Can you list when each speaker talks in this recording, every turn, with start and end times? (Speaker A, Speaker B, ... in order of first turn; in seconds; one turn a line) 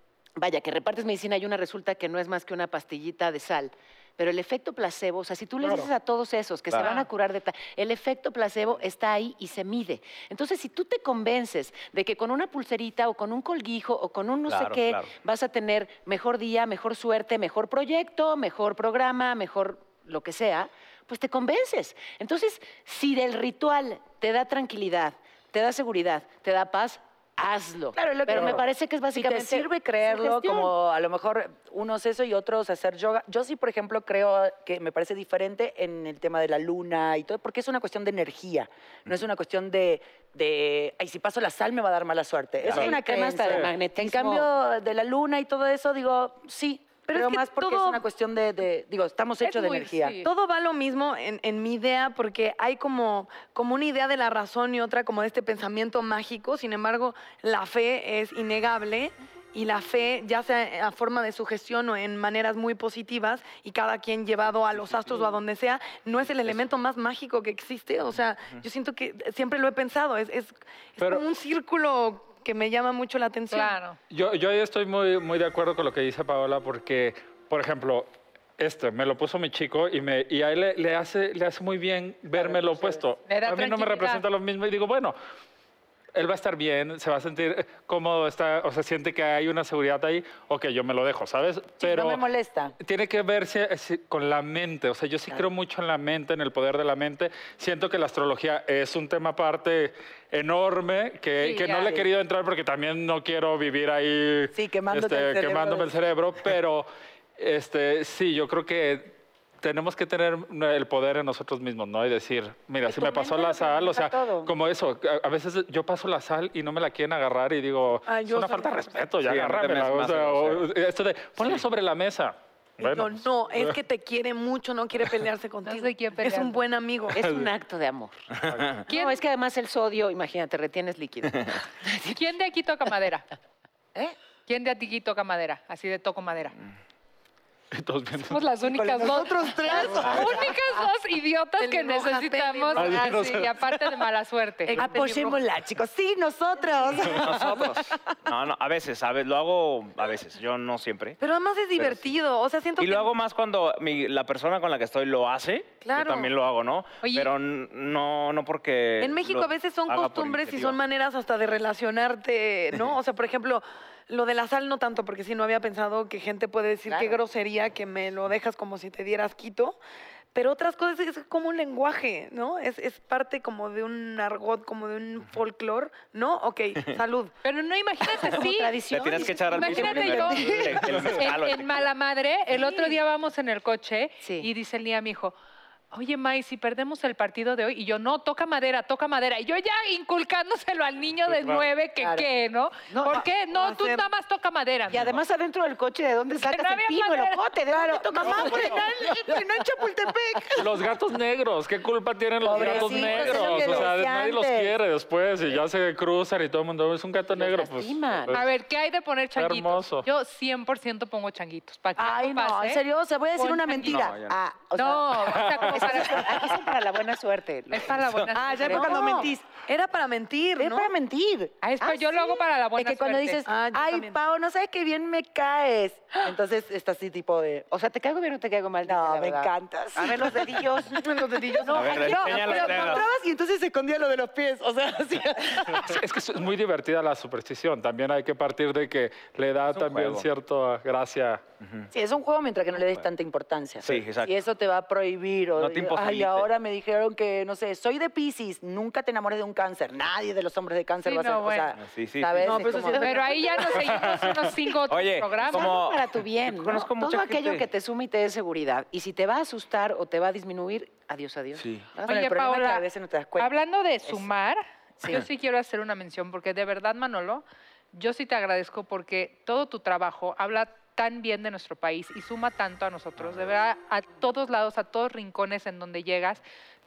Speaker A: 0.4-30.7
Speaker B: 5.6-5.9
Speaker C: 6.8-7.1
Speaker D: 14.5-15.1
Speaker E: 27.9-50.2
Speaker A: 42.7-44.5
Speaker B: 43.4-43.7
Speaker F: 47.1-48.0
Speaker C: 49.4-50.3
Speaker F: 50.2-73.8
Speaker D: 64.6-65.3
Speaker B: 71.0-71.2
Speaker C: 73.5-74.0
Speaker B: 74.1-85.2
Speaker E: 82.3-83.0
Speaker C: 83.3-84.3
Speaker B: 86.1-92.2
Speaker E: 91.8-92.8
Speaker B: 92.8-123.8
Speaker C: 101.4-102.0
Speaker E: 104.5-105.9
Speaker E: 112.8-114.5
Speaker F: 118.1-119.1
Speaker D: 119.2-120.7
Speaker F: 122.8-127.2
Speaker C: 125.7-126.6
Speaker A: 127.1-128.3
Speaker B: 127.2-127.5
Speaker D: 128.4-128.8
Speaker A: 128.9-132.2
Speaker C: 128.9-129.2
Speaker C: 132.1-133.3
Speaker C: 134.5-136.6
Speaker B: 137.7-138.4
Speaker C: 138.2-144.8
Speaker E: 138.7-140.5
Speaker F: 141.6-143.2
Speaker B: 142.8-143.8
Speaker F: 144.7-145.4
Speaker E: 144.7-148.1
Speaker F: 146.7-147.1
Speaker D: 147.0-151.2
Speaker F: 151.2-153.1
Speaker D: 151.8-152.1
Speaker D: 152.8-160.8
Speaker F: 155.8-156.3
Speaker C: 157.0-157.3
Speaker F: 159.0-169.8
Speaker E: 166.9-167.2
Speaker F: 170.3-177.3
Speaker C: 177.4-178.8
Speaker A: 178.3-180.6
Speaker D: 178.9-181.9
Speaker C: 179.5-185.3
Speaker E: 180.3-180.7
Speaker A: 184.2-184.5
Speaker C: 185.9-195.1
Speaker B: 191.3-191.7
Speaker E: 192.0-192.3
Speaker A: 192.9-193.2
Speaker F: 193.5-194.1
Speaker A: 194.9-199.1
Speaker C: 196.4-197.4
Speaker E: 197.7-200.8
Speaker C: 198.3-198.7
Speaker B: 200.6-208.5
Speaker E: 202.4-204.7
Speaker A: 202.7-203.2
Speaker A: 207.3-208.4
Speaker C: 208.3-212.8
Speaker B: 209.4-210.1
Speaker E: 212.0-216.5
Speaker C: 213.3-214.1
Speaker D: 213.8-214.4
Speaker C: 214.7-216.5
Speaker B: 215.3-215.9
Speaker A: 215.7-219.2
Speaker C: 217.7-219.1
Speaker F: 218.3-220.9
Speaker E: 218.6-219.5
Speaker E: 220.6-227.7
Speaker C: 221.6-223.4
Speaker F: 223.5-224.2
Speaker A: 227.7-231.0
Speaker E: 228.8-236.0
Speaker F: 231.0-233.0
Speaker D: 231.7-233.1
Speaker B: 235.7-241.4
Speaker D: 239.7-240.3
Speaker D: 241.6-241.9
Speaker E: 241.9-253.6
Speaker D: 243.8-244.4
Speaker D: 245.6-246.5
Speaker C: 251.0-251.7
Speaker D: 251.8-252.7
Speaker F: 252.4-253.8
Speaker A: 252.7-253.2
Speaker C: 253.0-255.8
Speaker B: 254.0-254.3
Speaker D: 254.9-257.7
Speaker A: 255.4-262.2
Speaker D: 261.6-261.9
Speaker C: 262.1-262.9
Speaker E: 262.1-263.6
Speaker C: 263.4-276.4
Speaker D: 273.2-273.5